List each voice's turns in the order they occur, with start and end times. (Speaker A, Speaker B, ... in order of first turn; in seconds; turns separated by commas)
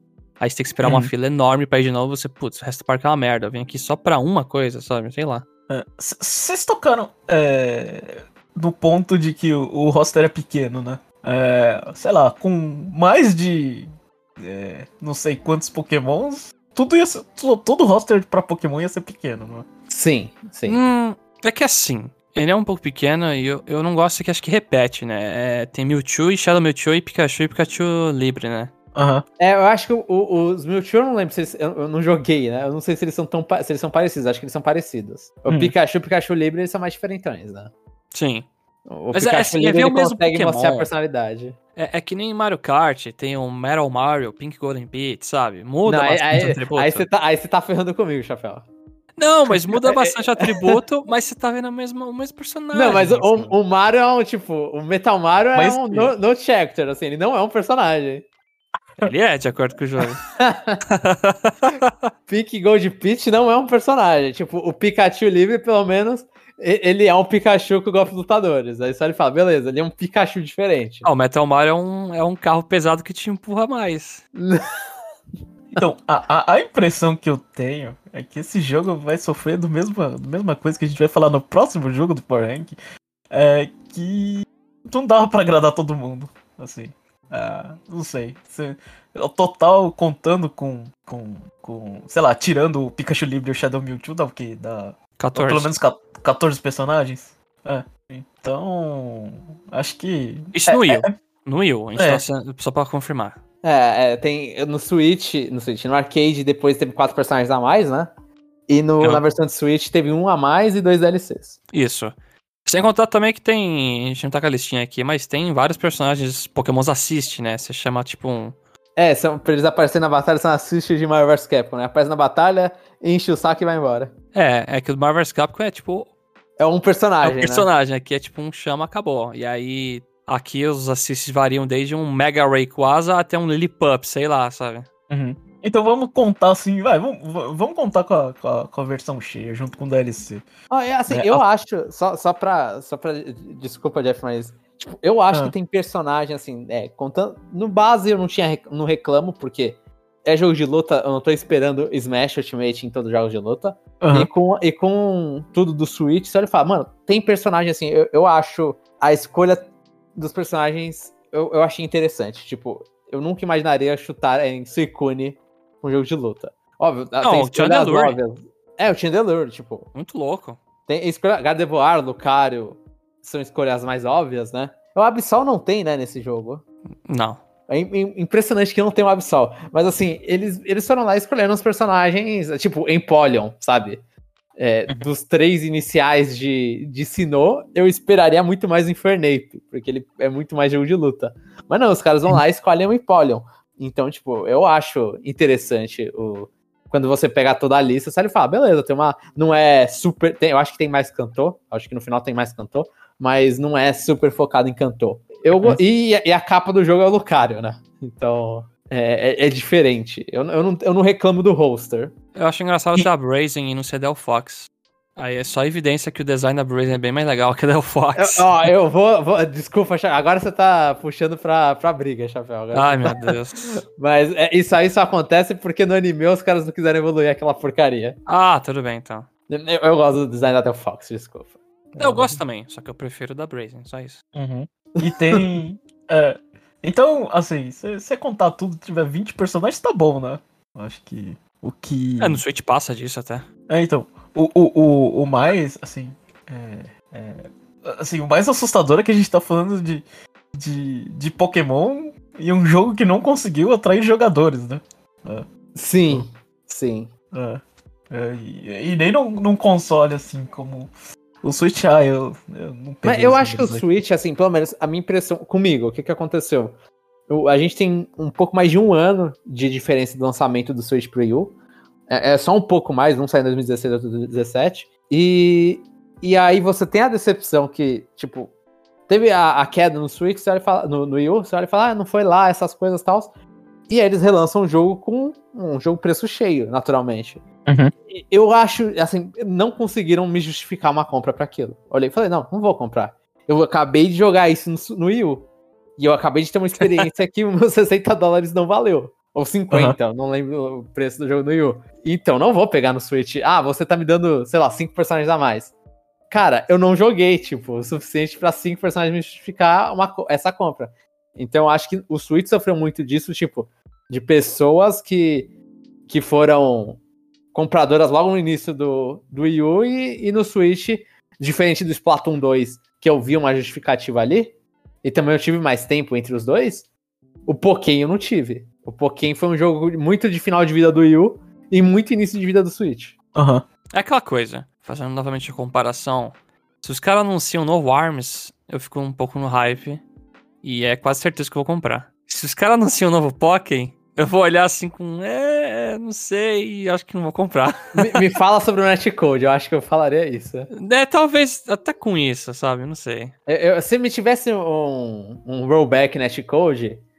Speaker A: 0.4-5.5, Speaker B: 0.8-1.1, Speaker B: 5.7-19.7, Speaker C: 19.9-20.8, Speaker A: 20.7-28.7, Speaker B: 28.9-29.2, Speaker C: 29.4-37.7, Speaker B: 35.5-35.8, Speaker A: 38.1-38.5, Speaker C: 38.9-41.6, Speaker A: 39.1-40.9, Speaker A: 41.8-47.1, Speaker C: 45.9-48.6, Speaker B: 46.3-46.6, Speaker A: 49.2-53.5, Speaker C: 49.8-50.5, Speaker C: 52.7-58.3, Speaker B: 55.5-56.1, Speaker A: 59.0-60.2, Speaker C: 60.4-60.8, Speaker A: 60.9-62.1, Speaker C: 62.3-71.1, Speaker A: 71.0-74.2, Speaker C: 74.3-74.8, Speaker B: 75.8-82.8, Speaker B: 83.3-101.1, Speaker A: 95.2-95.7, Speaker A: 100.5-103.4, Speaker B: 102.0-102.2, Speaker C: 103.6-108.1, Speaker C: 108.7-111.6, Speaker A: 111.7-112.2, Speaker A: 112.7-118.5, Speaker C: 119.0-124.1, Speaker A: 124.3-126.1, Speaker C: 126.6-127.7, Speaker A: 127.2-134.9, Speaker B: 135.1-140.5, Speaker C: 140.7-169.9, Speaker B: 141.1-141.4, Speaker B: 154.0-154.3, Speaker A: 167.2-168.2, Speaker A: 169.9-170.6, Speaker C: 170.9-176.6, Speaker A: 177.1-177.4, Speaker C: 177.7-184.0, Speaker C: 184.6-212.1, Speaker A: 212.3-218.7, Speaker C: 218.2-228.2, Speaker A: 222.7-223.8, Speaker A: 228.3-229.3, Speaker C: 229.5-232.4, Speaker A: 232.0-234.2, Speaker B: 234.3-242.4, Speaker C: 235.0-235.5, Speaker A: 242.2-243.5, Speaker B: 243.7-255.5, Speaker C: 255.8-257.1, Speaker B: 257.3-260.9, Speaker B: 261.4-263.9, Speaker C: 263.0-266.8, Speaker C: 267.3-271.6, Speaker C: 272.1-278.5, Speaker C: 279.1-283.3, Speaker C: 283.9-287.4, Speaker B: 287.7-287.9, Speaker C: 288.1-305.7, Speaker B: 299.7-300.0, Speaker C: 306.3-315.5, Speaker C: 316.1-317.0, Speaker C: 317.5-326.9, Speaker C: 327.5-333.1, Speaker B: 333.4-333.6, Speaker A: 333.9-340.0, Speaker A: 340.6-348.2, Speaker C: 348.0-350.7, Speaker A: 350.7-353.3, Speaker C: 353.5-357.0